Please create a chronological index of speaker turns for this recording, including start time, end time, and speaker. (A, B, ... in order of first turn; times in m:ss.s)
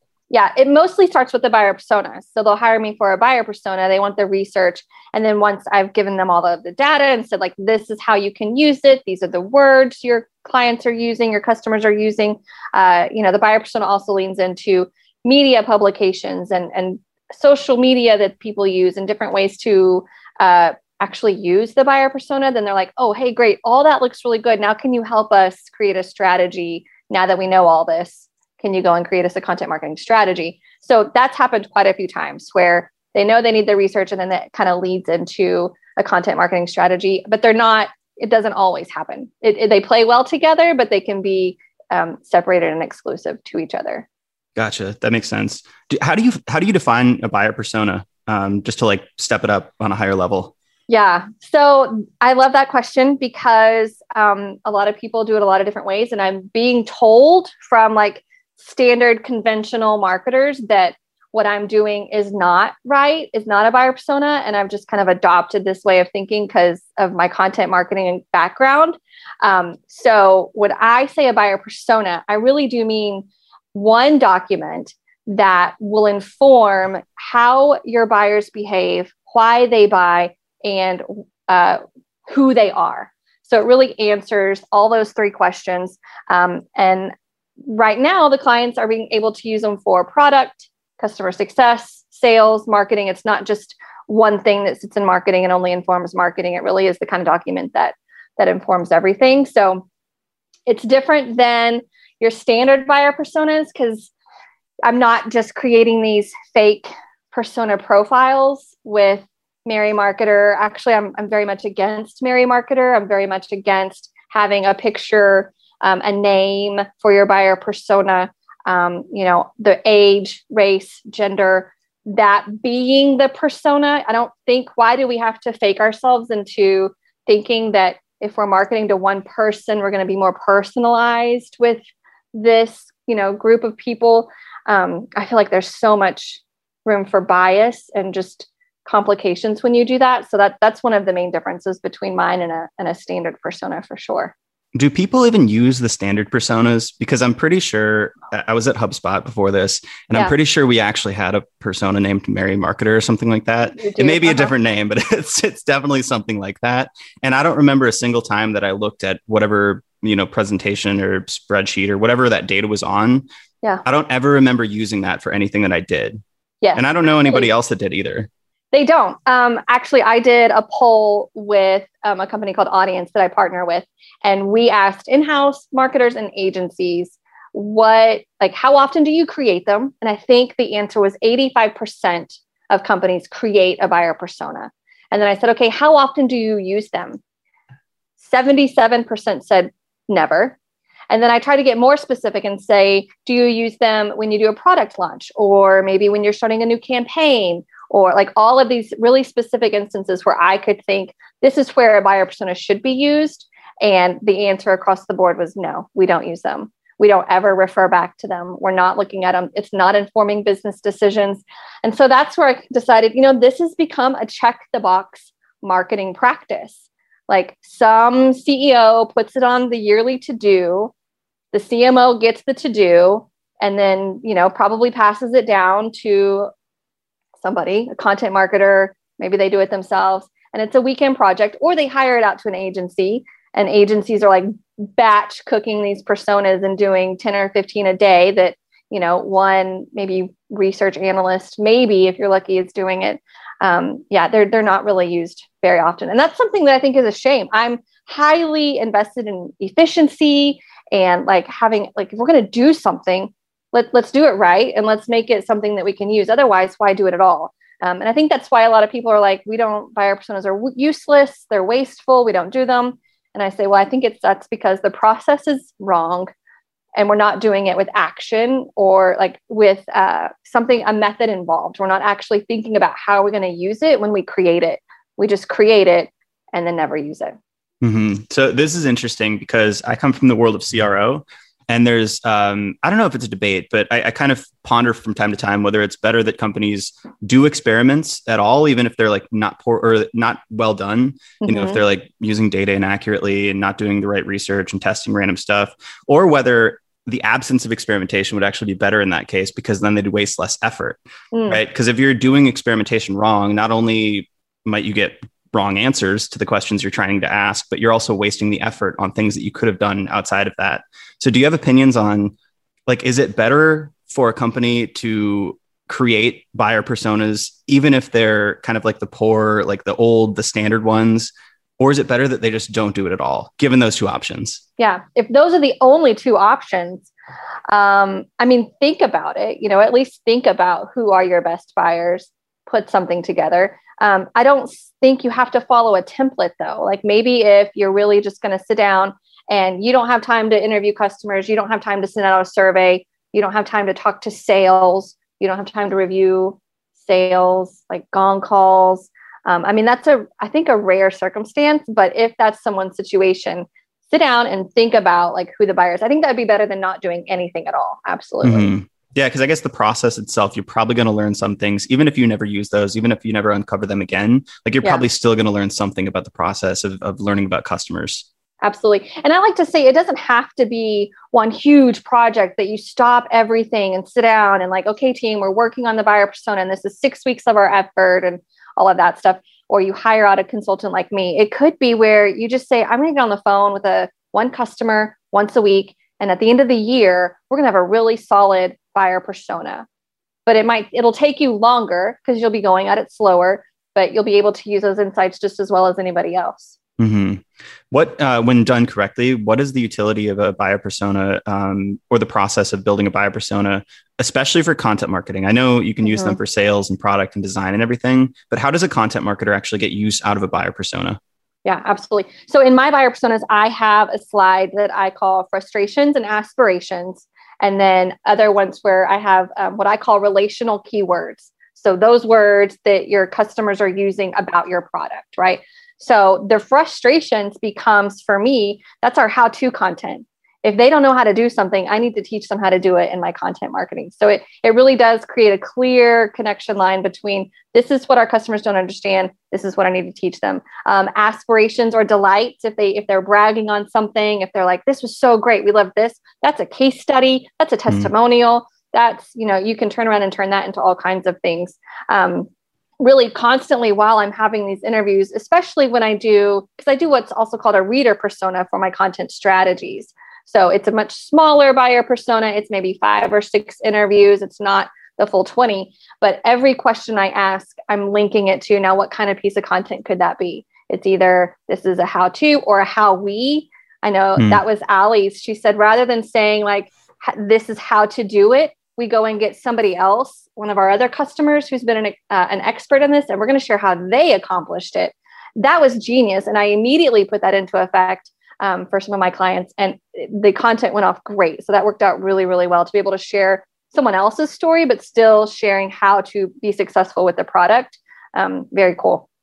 0:00.3-0:44.1 A
0:44.6-0:50.5 B
0:50.9-1:27.1 A
1:27.6-1:39.8 A
1:40.7-1:44.1 A
1:44.8-2:24.3 A
2:24.8-2:43.2 B
2:33.8-2:34.5 A
2:43.8-2:46.2 B
2:46.6-2:47.5 A
2:46.8-2:48.3 B
2:48.7-3:07.2 A
3:08.2-3:10.6 A
3:11.1-3:40.9 A
3:41.5-3:46.5 A
3:47.4-4:26.3 A
4:27.0-4:37.3 A
4:37.8-5:12.4 B
4:51.4-4:51.8 A
5:01.3-5:01.6 A
5:12.9-5:24.6 B
5:24.8-5:27.1 A
5:27.7-5:58.7 A
5:58.4-6:08.3 B
6:08.6-6:29.8 A
6:30.5-6:36.8 A
6:37.0-6:51.2 B
6:46.0-6:46.4 A
6:51.6-7:32.5 A
7:33.0-8:19.3 A
7:54.4-7:54.6 B